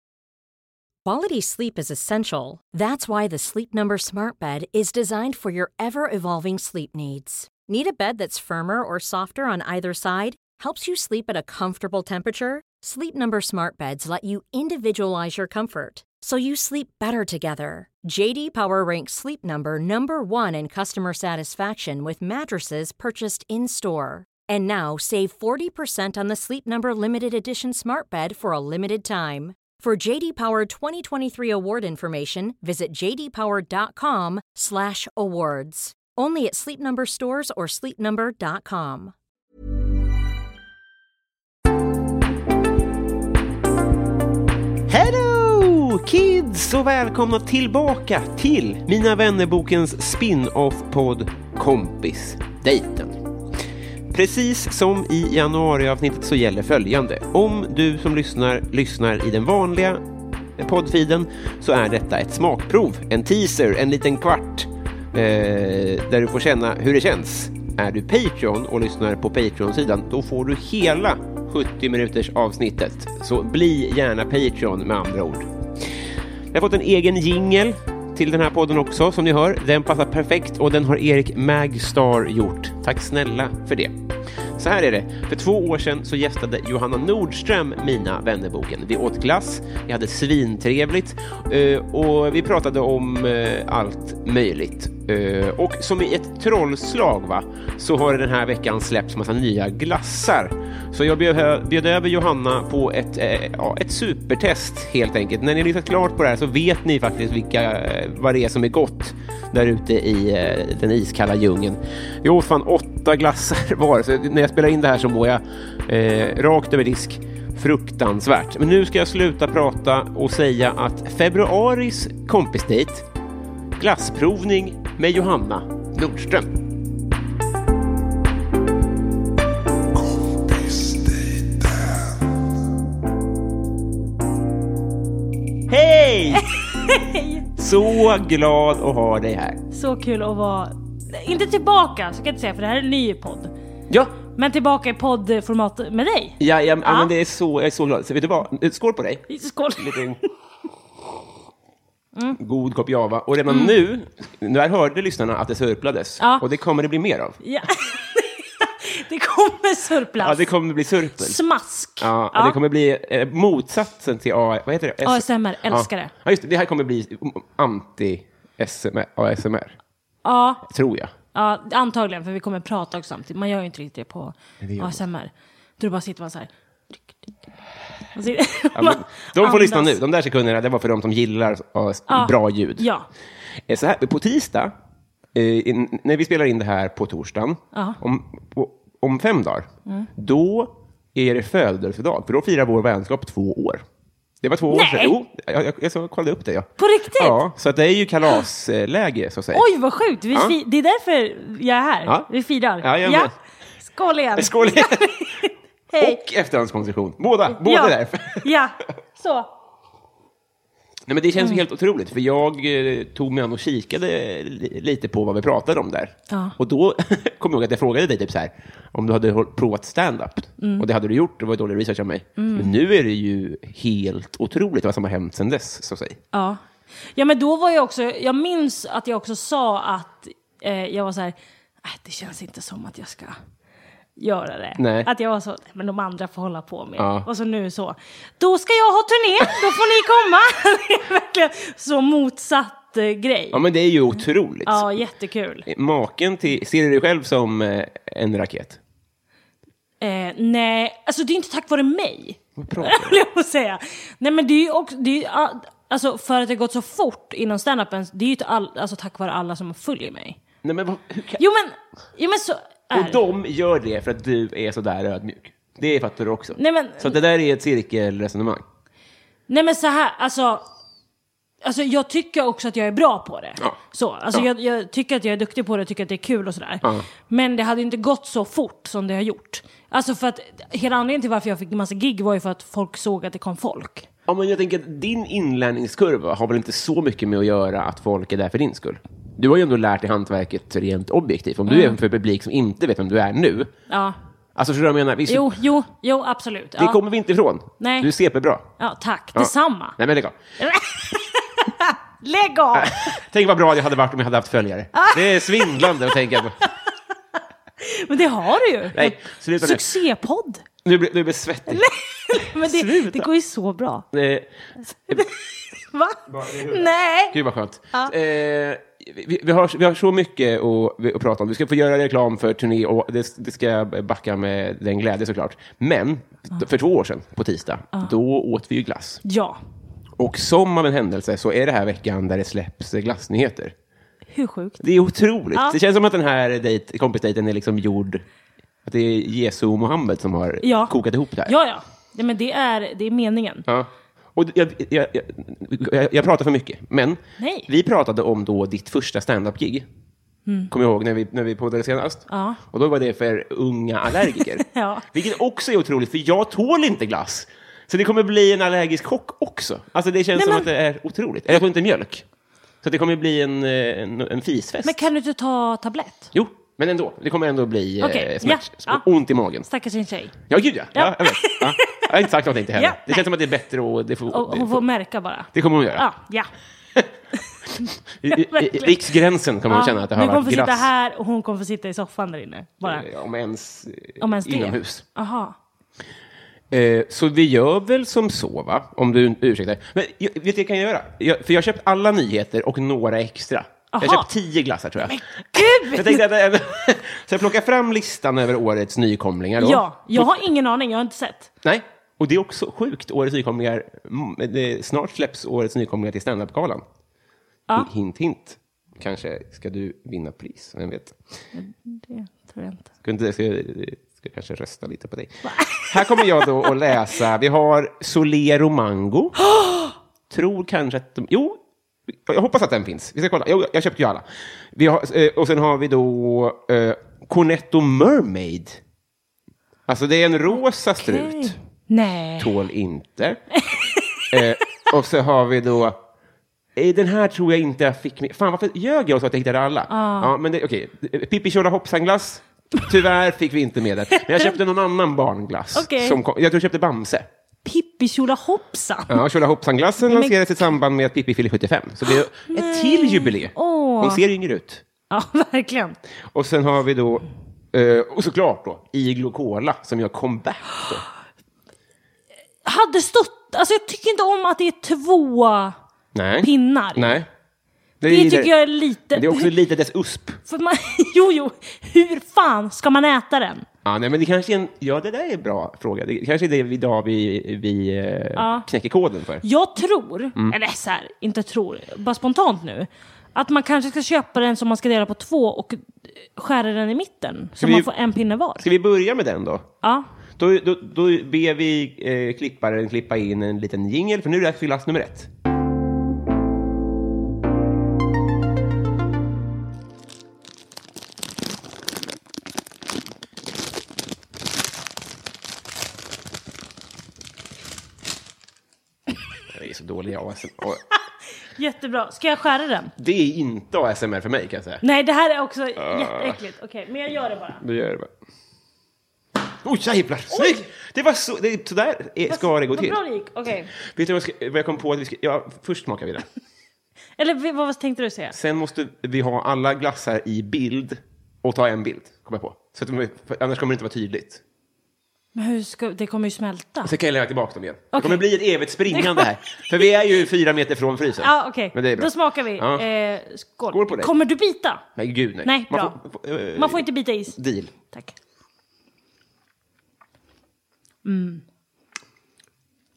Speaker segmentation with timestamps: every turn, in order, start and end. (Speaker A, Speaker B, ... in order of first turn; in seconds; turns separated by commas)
Speaker A: 1.1-39.1, Speaker B: 44.9-53.2, Speaker B: 54.1-60.0, Speaker B: 60.6-75.5, Speaker B: 76.5-83.9, Speaker B: 84.6-123.0, Speaker B: 123.8-126.5, Speaker B: 130.2-131.1, Speaker B: 135.7-136.5, Speaker C: 136.3-137.4, Speaker B: 137.6-139.6, Speaker C: 139.7-143.5, Speaker B: 143.9-144.2, Speaker C: 144.3-147.1, Speaker B: 146.4-149.2, Speaker C: 149.3-150.2, Speaker B: 149.8-150.2, Speaker B: 152.4-157.4, Speaker C: 153.5-153.8, Speaker C: 156.2-156.4, Speaker C: 157.4-160.5, Speaker B: 160.2-161.4, Speaker C: 161.2-162.6, Speaker B: 162.0-169.8, Speaker C: 165.0-166.1, Speaker C: 170.2-170.7, Speaker B: 170.7-171.1, Speaker C: 171.3-176.5, Speaker B: 174.6-175.0, Speaker C: 178.1-180.0, Speaker B: 178.8-182.9, Speaker C: 182.1-183.1, Speaker B: 183.7-184.7, Speaker B: 185.3-193.8, Speaker C: 187.7-188.0, Speaker B: 194.4-199.7, Speaker C: 194.7-195.2, Speaker C: 196.8-197.4, Speaker C: 199.5-206.2, Speaker B: 202.8-203.3, Speaker B: 204.4-205.1, Speaker B: 205.9-208.5, Speaker C: 207.5-209.5, Speaker B: 211.1-226.2, Speaker C: 211.4-211.7, Speaker C: 216.3-216.6, Speaker C: 220.6-220.8, Speaker C: 222.4-222.7, Speaker C: 226.3-226.6, Speaker C: 227.2-233.3, Speaker C: 234.2-243.6, Speaker B: 234.8-235.1, Speaker B: 237.0-237.3, Speaker B: 243.5-245.0, Speaker C: 244.7-245.7, Speaker B: 245.7-248.8, Speaker C: 250.0-260.4, Speaker B: 252.6-253.2, Speaker B: 260.6-261.4, Speaker C: 261.4-263.2, Speaker B: 262.9-268.6, Speaker C: 266.5-267.2, Speaker C: 269.5-270.6, Speaker C: 271.6-284.1, Speaker B: 284.3-293.7, Speaker C: 291.7-292.0, Speaker C: 293.9-294.1, Speaker B: 294.6-295.5, Speaker C: 295.3-297.0, Speaker B: 296.8-298.7, Speaker C: 297.8-298.1, Speaker C: 298.8-300.0, Speaker B: 299.4-300.4, Speaker C: 300.6-303.2, Speaker B: 302.7-306.6, Speaker C: 304.9-306.7, Speaker C: 307.8-310.6, Speaker B: 308.9-309.8, Speaker B: 310.8-313.3, Speaker C: 311.7-314.1, Speaker B: 314.1-314.5, Speaker C: 315.1-317.4, Speaker B: 316.3-329.2, Speaker C: 329.2-329.6, Speaker B: 330.2-333.7, Speaker C: 334.3-334.8, Speaker B: 334.8-338.2, Speaker C: 335.5-335.8, Speaker B: 338.9-341.5, Speaker C: 340.6-343.6, Speaker B: 343.7-349.9, Speaker C: 347.4-347.7, Speaker B: 350.7-362.2, Speaker C: 352.3-352.6, Speaker C: 354.2-355.1, Speaker C: 360.4-360.7, Speaker B: 362.8-365.0, Speaker C: 364.8-366.3, Speaker B: 366.3-369.6, Speaker C: 368.0-369.1, Speaker C: 369.6-373.3, Speaker B: 370.5-374.8, Speaker C: 374.3-376.5, Speaker B: 375.5-376.1, Speaker C: 377.4-379.1, Speaker B: 378.2-380.9, Speaker C: 379.7-383.1, Speaker B: 382.8-385.0, Speaker C: 384.2-385.5, Speaker B: 386.7-400.5, Speaker C: 393.9-394.3, Speaker C: 395.0-396.2, Speaker C: 399.6-401.5, Speaker B: 401.6-406.8, Speaker B: 407.8-411.1, Speaker C: 411.5-412.9, Speaker B: 413.0-415.4, Speaker C: 415.4-417.1, Speaker B: 415.9-419.4, Speaker C: 419.4-419.9, Speaker B: 420.3-421.6, Speaker B: 422.1-428.8, Speaker B: 429.9-431.5, Speaker C: 430.5-432.5, Speaker B: 432.4-433.4, Speaker C: 433.5-434.5, Speaker B: 434.3-436.0, Speaker B: 436.8-447.3, Speaker C: 439.9-440.4, Speaker C: 444.1-444.6, Speaker C: 445.7-446.2, Speaker C: 447.6-449.2, Speaker B: 449.1-454.8, Speaker C: 450.0-450.4, Speaker C: 452.0-454.2, Speaker C: 455.1-456.0, Speaker B: 456.3-461.0, Speaker C: 462.6-465.8, Speaker B: 466.1-467.3, Speaker C: 466.4-467.2, Speaker B: 468.0-468.5, Speaker C: 468.1-469.5, Speaker B: 469.1-470.4, Speaker C: 470.5-473.6, Speaker B: 473.9-479.4, Speaker C: 478.4-478.7, Speaker C: 479.4-488.7, Speaker B: 487.6-487.9, Speaker B: 488.6-489.7, Speaker B: 490.4-495.3, Speaker B: 509.5-510.8, Speaker C: 511.6-512.9, Speaker B: 513.0-514.8, Speaker C: 514.8-517.6, Speaker B: 515.8-516.4, Speaker B: 517.6-518.1, Speaker B: 519.6-523.0, Speaker C: 520.3-520.6, Speaker C: 522.3-523.7, Speaker B: 523.8-526.2, Speaker C: 527.2-528.4, Speaker B: 528.3-534.4, Speaker C: 535.4-536.9, Speaker B: 536.8-542.9, Speaker C: 537.9-539.9, Speaker C: 541.2-544.9, Speaker B: 543.7-544.1, Speaker B: 545.0-547.7, Speaker C: 545.4-546.0, Speaker C: 546.5-547.4, Speaker C: 551.0-551.4